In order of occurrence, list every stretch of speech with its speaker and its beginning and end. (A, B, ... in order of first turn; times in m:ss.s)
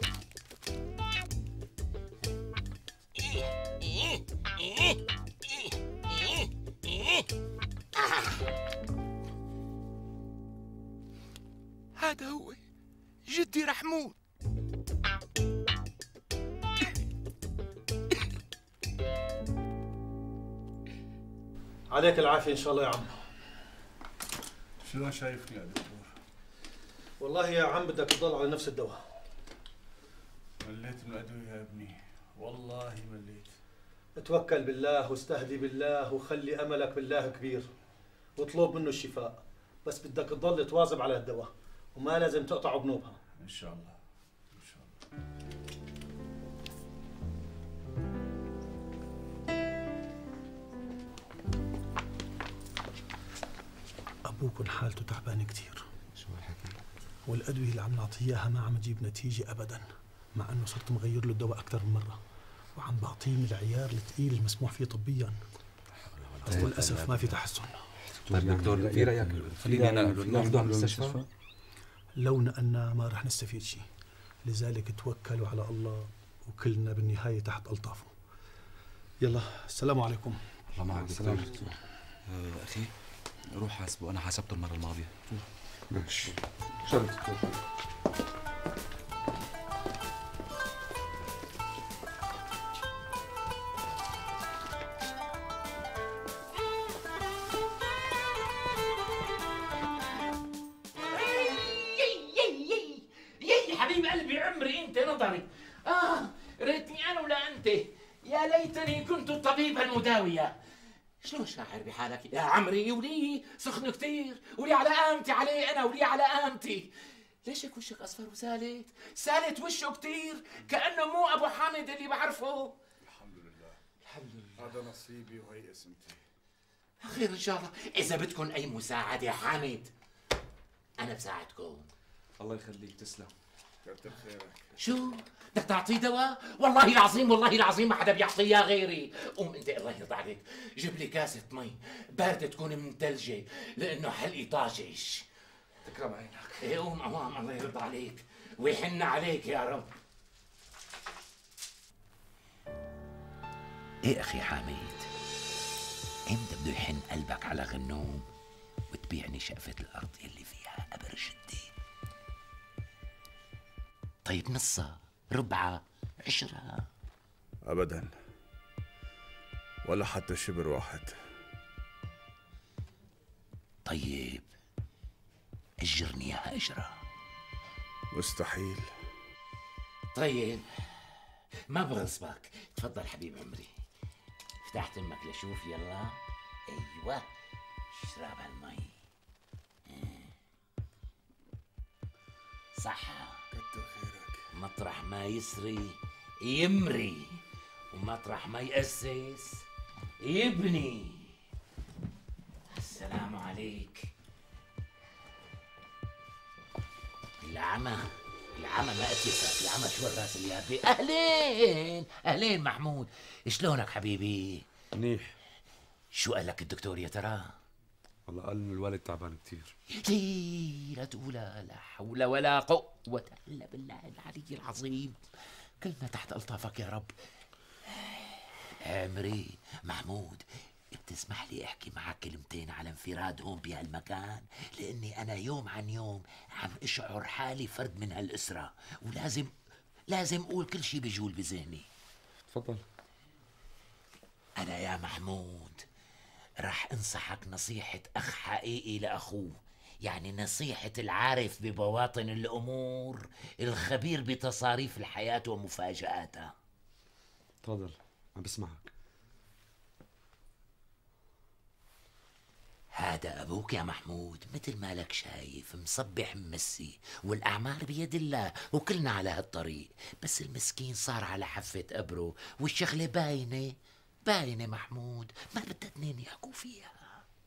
0:03.2-0:07.3 A
0:08.0-0:08.4 A
0:12.0-0:12.6 A
0:13.3-0:14.2 A
0:21.9-0:23.2 B
0:24.8-0:26.1 C
0:27.2-0:29.0 B
0:30.6-0:33.5 C
0:34.2-0:37.7 B
0:38.4-0:43.2 B
0:43.4-0:44.0 C
0:44.6-0:44.9 C
0:54.3-0:55.9 D
0:56.2-0:56.8 E
0:57.3-1:02.2 D
1:02.8-1:05.4 D
1:06.2-1:07.4 F
1:06.4-1:07.0 E
1:06.5-1:07.8 D
1:08.2-1:11.3 F
1:08.3-1:11.2 E
1:12.2-1:13.9 D
1:14.4-1:18.1 D
1:19.2-1:20.4 D
1:20.8-1:21.6 E
1:20.9-1:21.7 F
1:22.3-1:22.9 E
1:23.5-1:25.4 E
1:25.9-1:26.4 F
1:26.9-1:27.4 F
1:41.1-1:50.6 A
1:51.2-1:56.9 A
1:57.4-2:02.7 A
2:03.1-2:03.8 C
2:04.1-2:04.6 E
2:04.6-2:06.2 C
2:07.0-2:09.9 A
2:11.0-2:11.9 A
2:12.4-2:13.3 E
2:13.8-2:14.7 C
2:14.8-2:25.2 A
2:25.8-2:26.7 E
2:26.6-2:29.9 A
2:34.0-2:35.1 A
2:36.3-2:38.2 A
2:38.9-2:41.7 A
2:44.3-2:46.8 A
2:47.7-2:48.1 C
2:49.8-2:51.1 C
2:53.9-2:54.5 A
2:55.8-2:57.0 A
2:58.2-2:58.9 C
3:00.2-3:01.0 A
3:01.7-3:03.7 A
3:04.7-3:07.2 A
3:07.9-3:08.9 A
3:09.9-3:10.3 A
3:12.8-3:13.4 A
3:13.5-3:14.4 C
3:14.5-3:17.4 A
3:17.9-3:19.6 A
3:20.2-3:21.3 A
3:22.7-3:24.1 A
3:27.4-3:34.6 A
3:35.0-3:35.3 F
3:36.1-3:37.5 A
3:38.3-3:39.7 F
3:39.9-3:45.2 A
3:45.8-3:47.1 A
3:47.9-3:59.5 A
4:00.1-4:01.9 A
4:02.5-4:02.8 F
4:04.6-4:05.9 A
4:06.6-4:16.5 A
4:17.6-4:18.9 F
4:22.9-4:33.8 A
4:34.3-4:36.9 A